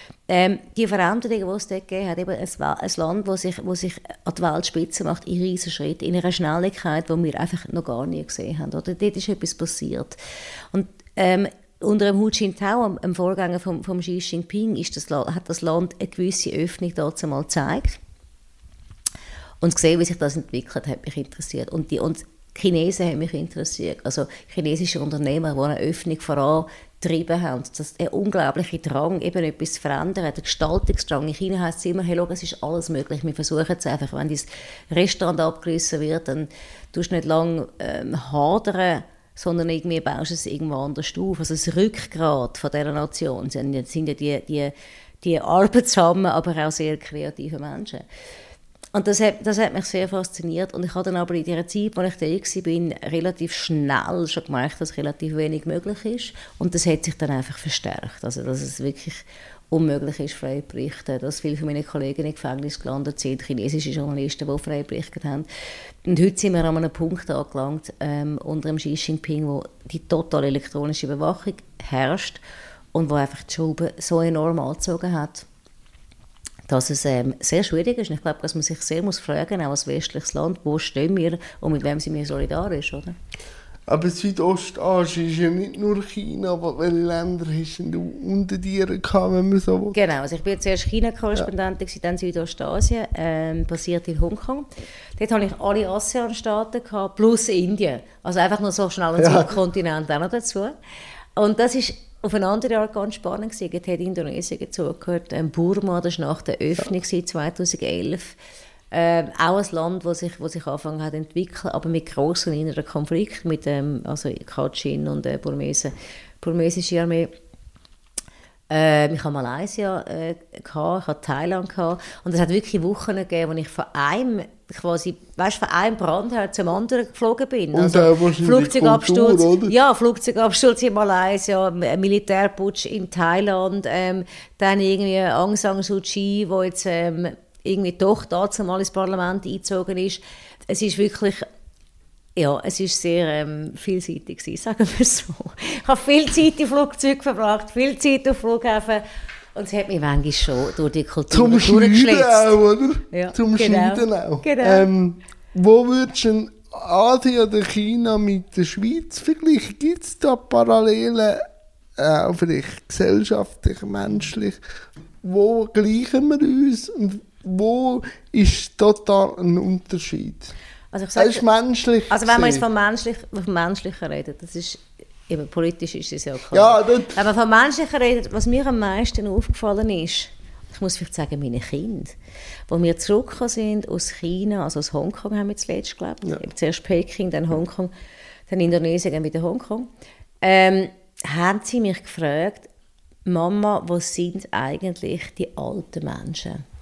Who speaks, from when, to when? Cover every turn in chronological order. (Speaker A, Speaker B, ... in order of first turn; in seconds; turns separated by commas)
Speaker A: 0.3-10.2, Speaker A: 10.7-18.0, Speaker A: 19.6-48.0, Speaker A: 48.9-65.5, Speaker A: 66.0-72.4, Speaker A: 72.9-75.5, Speaker A: 76.7-83.2, Speaker B: 83.9-89.9, Speaker A: 89.9-100.7, Speaker B: 99.2-99.5, Speaker A: 101.3-108.4, Speaker A: 108.9-117.3, Speaker A: 118.7-141.5, Speaker B: 127.7-129.7, Speaker A: 142.3-149.0, Speaker A: 149.5-152.5, Speaker B: 151.3-161.4, Speaker A: 153.1-154.9, Speaker B: 162.0-164.6, Speaker B: 165.2-170.5, Speaker A: 170.9-171.4, Speaker B: 171.2-172.6, Speaker A: 172.1-182.2, Speaker B: 176.5-177.1, Speaker A: 182.7-187.9, Speaker A: 188.5-189.9, Speaker A: 190.4-192.7, Speaker A: 193.2-196.6